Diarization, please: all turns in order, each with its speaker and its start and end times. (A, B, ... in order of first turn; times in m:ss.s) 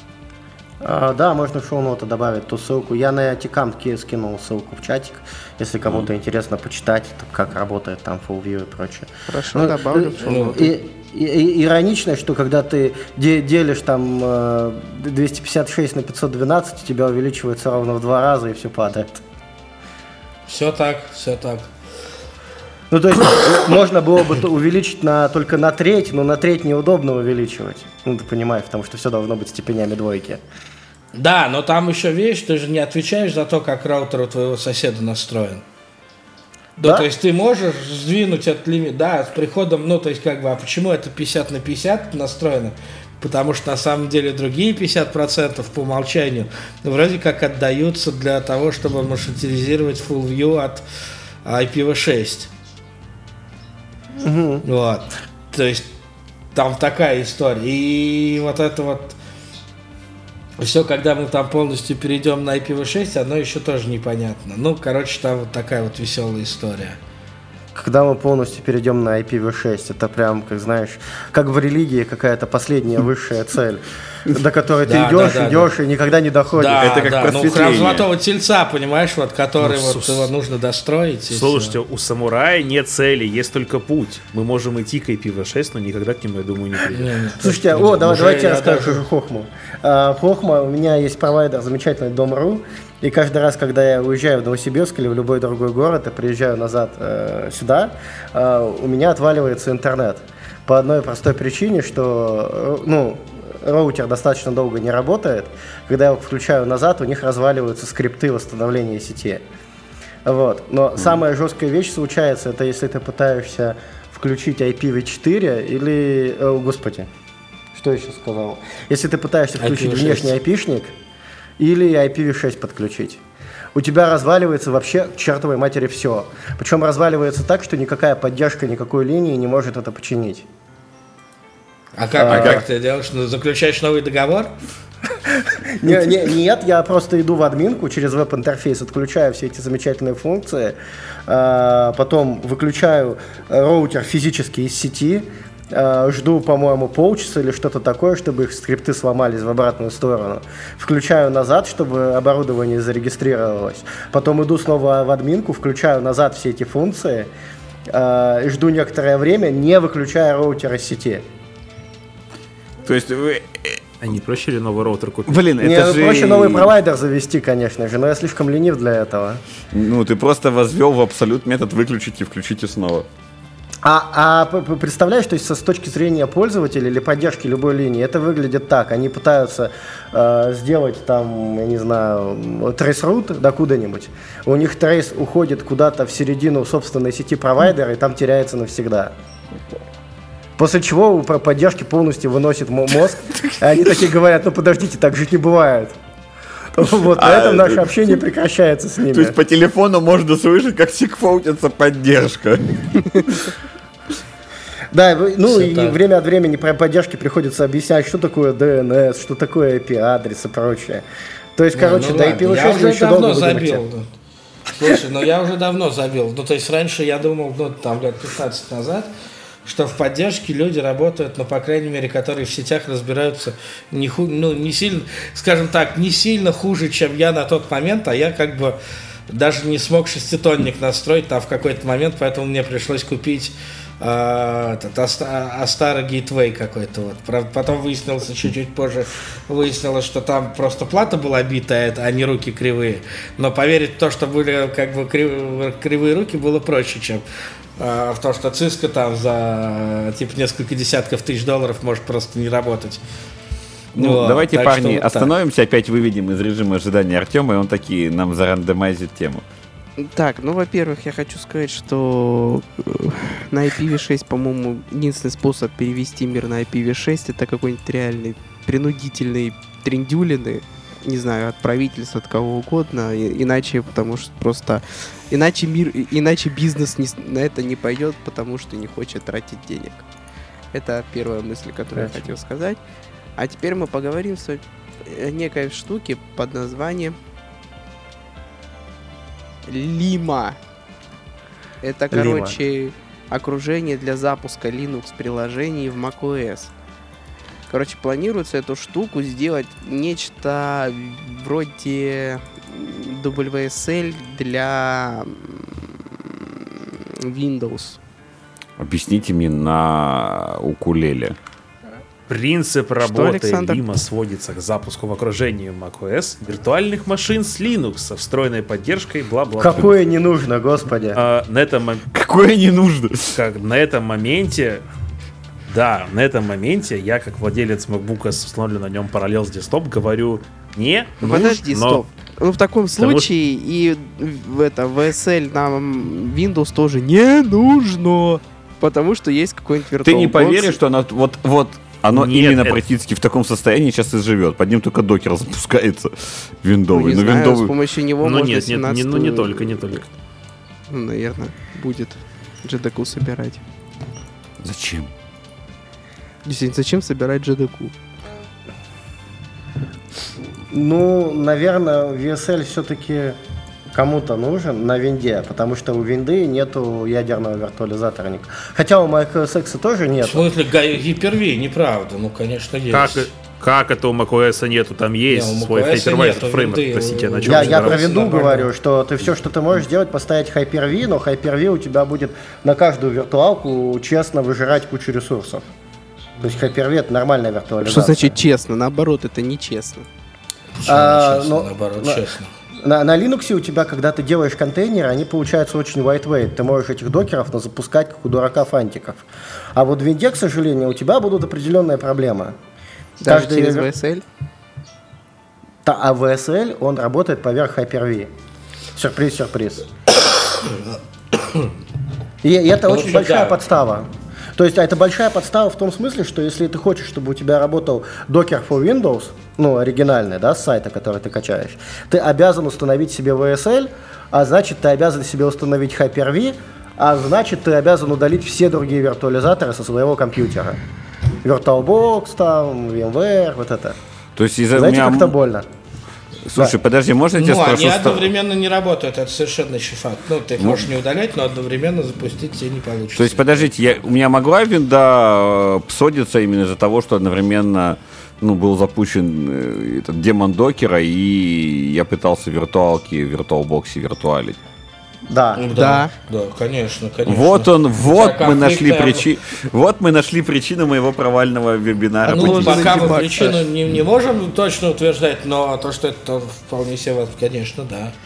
0:00.8-0:19.2 A
0:09.3-0:10.7 B
0:10.2-0:10.7 C
0:20.5-0:21.7 C
0:22.9-0:30.4 A
0:31.2-0:35.6 C
0:36.8-0:50.8 C
0:51.4-0:52.5 C
0:54.2-0:54.6 A
0:54.6-0:55.9 C
0:56.5-0:59.2 C
1:00.6-1:07.0 C
1:07.7-1:16.8 A
1:14.8-1:15.7 C
1:16.5-1:21.8 C
1:16.8-1:18.0 D
1:19.6-1:20.3 E
1:21.3-1:27.2 E
1:26.9-1:29.0 C
1:27.4-1:49.4 A
1:50.2-1:57.1 A
1:57.7-2:00.9 A
1:59.6-2:00.4 C
2:01.6-2:03.2 A
2:03.7-2:10.4 A
2:12.0-2:14.5 C
2:12.2-2:12.6 A
2:12.2-2:12.6 D
2:15.2-2:37.3 A
2:37.9-2:41.2 A
2:42.8-2:43.8 D
2:44.0-2:45.4 E
2:45.3-2:46.7 D
2:45.6-2:49.4 A
2:49.7-2:53.0 D
2:53.8-3:09.1 A
3:10.6-3:16.0 A
3:16.7-3:19.4 A
3:17.1-3:18.0 D
3:19.1-3:23.5 D
3:24.9-3:31.0 A
3:25.5-3:26.0 C
3:31.6-3:33.8 A
3:31.7-3:34.1 C
3:34.7-3:39.1 C
3:39.6-3:48.8 C
3:49.3-4:07.2 C
4:07.8-4:13.0 C
4:13.9-4:15.3 C
4:14.0-4:19.4 D
4:20.0-4:40.0 B
4:40.7-4:42.8 B
4:41.9-4:42.3 A
4:43.4-4:47.2 B
4:49.6-4:50.6 B
4:51.8-4:56.7 B
4:52.1-4:52.6 A
4:57.7-5:08.0 B
5:08.8-5:11.4 D
5:12.3-5:19.9 E
5:13.0-5:13.8 B
5:19.6-5:21.2 A
5:21.1-5:22.0 E
5:22.1-5:23.4 D
5:23.3-5:24.8 E
5:25.7-5:32.0 E
5:31.2-5:40.7 B
5:33.0-5:33.3 E
5:40.0-5:47.7 D
5:42.1-5:42.8 E
5:46.9-5:49.8 B
5:48.2-5:50.1 E
5:50.9-5:53.6 B
5:54.6-5:55.1 D
5:56.4-5:57.9 B
6:00.7-6:03.4 A
6:03.9-6:10.5 A
6:10.2-6:13.3 C
6:12.9-6:18.0 E
6:15.3-6:18.7 C
6:17.4-6:25.7 A
6:26.4-6:28.4 A
6:27.8-6:30.0 B
6:30.8-6:32.5 C
6:30.8-6:32.2 A
6:32.8-6:42.5 A
6:43.2-6:44.2 B
6:43.3-6:43.9 A
6:45.8-6:48.3 A
6:48.9-6:49.8 A
6:50.2-6:51.7 C
6:52.4-7:10.8 A
6:52.9-6:53.6 C
7:11.4-7:14.0 A
7:14.4-7:15.3 D
7:14.7-7:15.6 A
7:16.4-7:18.3 D
7:17.4-7:23.7 C
7:20.6-7:20.9 D
7:23.2-7:34.6 D
7:35.3-7:35.6 A
7:35.6-7:39.2 C
7:35.7-7:36.1 B
7:37.2-7:43.3 D
7:42.2-7:43.6 B
7:42.3-7:48.1 C